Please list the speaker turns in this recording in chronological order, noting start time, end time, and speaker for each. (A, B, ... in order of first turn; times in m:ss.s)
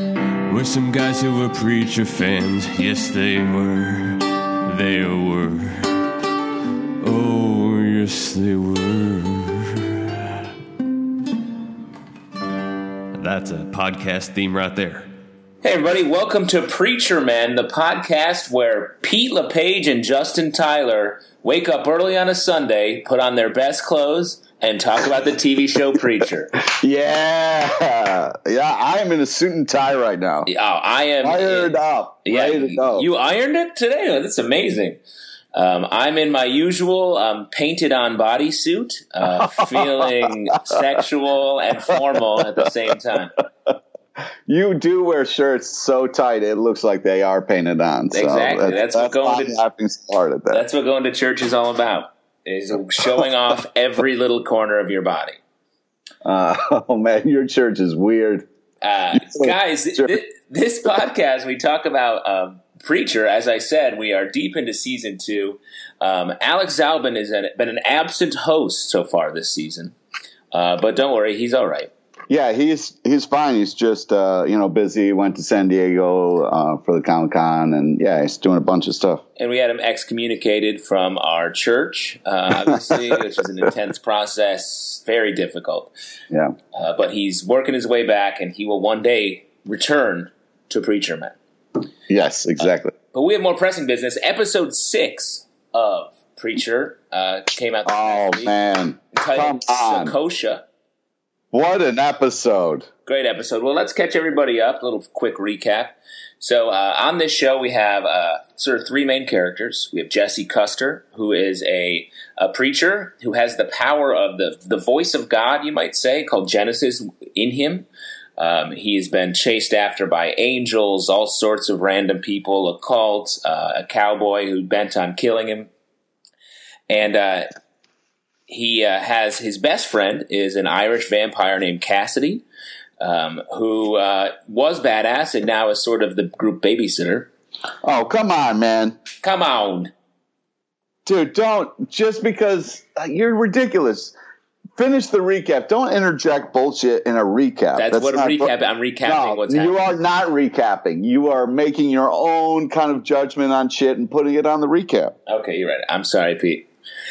0:00.5-0:06.1 A
0:07.0-0:10.5 A
0:13.2-0:15.1 A
0:15.6-0:26.5 B
0:26.6-0:30.5 C
0:30.5-0:35.0 B
0:31.2-0:33.1 C
0:35.5-0:43.4 B
0:39.2-0:40.7 C
0:42.4-0:42.7 C
0:44.5-0:50.6 C
0:48.1-0:49.6 B
0:50.5-0:55.4 B
0:56.2-0:58.4 C
0:58.8-1:10.0 B
0:59.2-1:00.1 C
1:10.5-1:11.9 B
1:12.3-1:19.2 C
1:19.4-1:25.9 B
1:26.7-1:31.4 B
1:32.1-1:32.9 C
1:33.1-1:38.6 B
1:37.9-1:40.2 C
1:39.1-1:40.6 B
1:41.5-1:42.9 C
1:43.1-1:57.9 B
1:58.4-2:05.7 B
2:06.9-2:07.5 B
2:08.5-2:12.4 B
2:13.0-2:17.3 B
2:17.8-2:19.0 C
2:19.2-2:19.9 B
2:21.0-2:24.1 C
2:24.8-2:28.5 C
2:27.8-2:29.9 B
2:29.1-2:35.1 C
2:35.3-2:36.7 B